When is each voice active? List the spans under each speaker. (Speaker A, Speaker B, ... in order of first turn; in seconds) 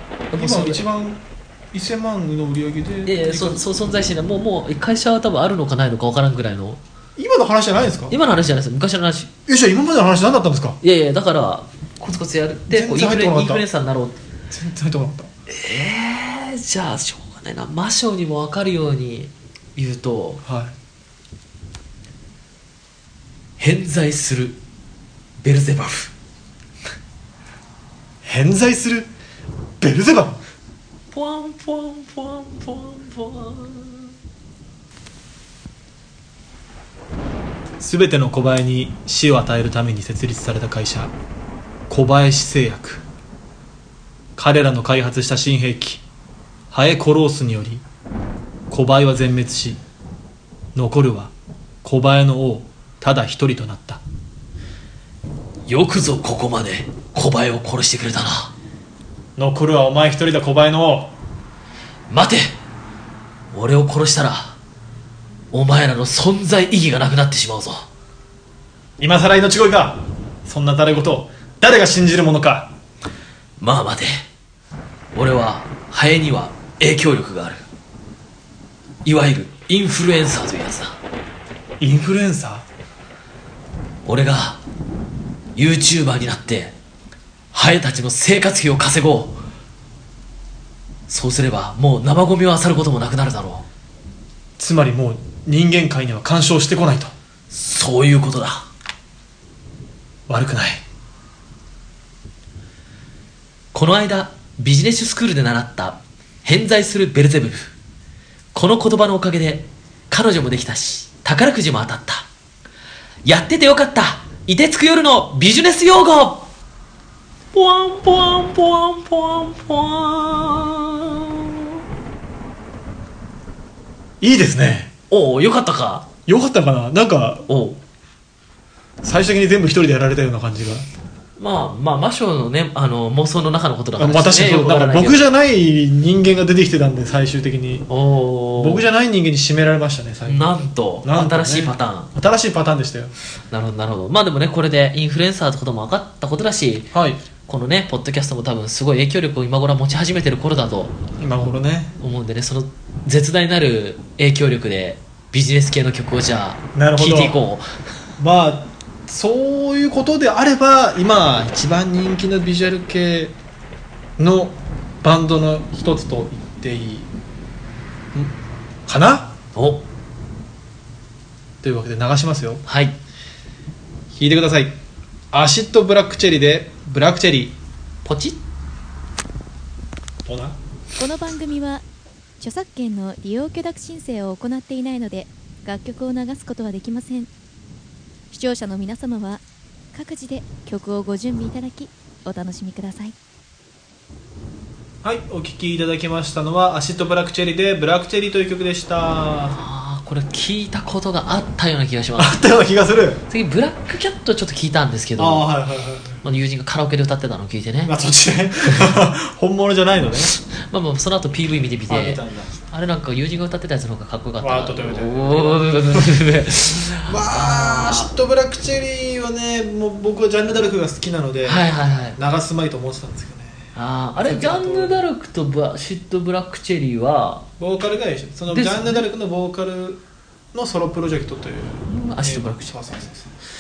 Speaker A: 0.3-0.8, 3.0-6.8, 8.1-9.3, 10.8-14.2, 15.5-20.4, 23.6-24.6, 25.4-26.1, 31.1-34.2, 55.7-58.5, 62.1-62.5, 63.5-64.6, 65.5-67.9, 73.6-74.2, 75.1-77.6, 79.0-81.0, 84.1-84.6, 85.6-86.8, 87.5-89.4, 91.1-93.7, 97.5-98.7, 103.7-107.7, 108.5-112.3, 113.2-116.5, 117.5-121.8, 125.1-126.1, 127.5-127.8, 131.4-135.3, 137.9-138.8, 140.3-142.1, 143.5-146.9, 147.5-151.0, 152.0-157.7, 169.6-169.8, 172.7-173.0, 178.0-178.4, 199.5-202.4, 203.3-205.5, 206.2-207.9, 208.7-208.9, 210.4-218.1, 221.4-222.2, 223.8-227.5, 228.5-229.1, 231.9-232.8
Speaker B: 0.3-3.7, 7.2-8.2, 9.5-10.8, 12.7-13.6, 14.5-15.3, 20.4-20.8, 28.2-29.1, 29.8-30.4, 37.8-41.1, 41.9-43.0, 44.4-46.0, 46.7-47.9, 48.7-49.8, 50.8-51.3, 51.8-54.0, 59.4-61.1, 69.0-72.7, 81.8-82.7, 94.6-97.1, 100.3-100.8, 124.2-124.9, 126.3-127.5, 129.0-130.9, 134.0-137.9, 138.6-140.5, 141.0-143.1, 146.9-147.2, 151.2-151.9, 156.8-157.4, 158.2-163.4, 164.2-167.1, 168.1-169.3, 171.6-172.6, 174.1-174.8, 175.3-177.6, 180.2-180.6, 195.0-199.6, 202.2-203.2, 205.2-206.2, 207.8-210.3, 211.9-212.6, 214.4-216.2, 216.9-225.1, 227.6-230.0, 230.5-233.3
Speaker C: 181.0-181.8, 182.4-187.3, 188.3-189.4, 189.9-193.1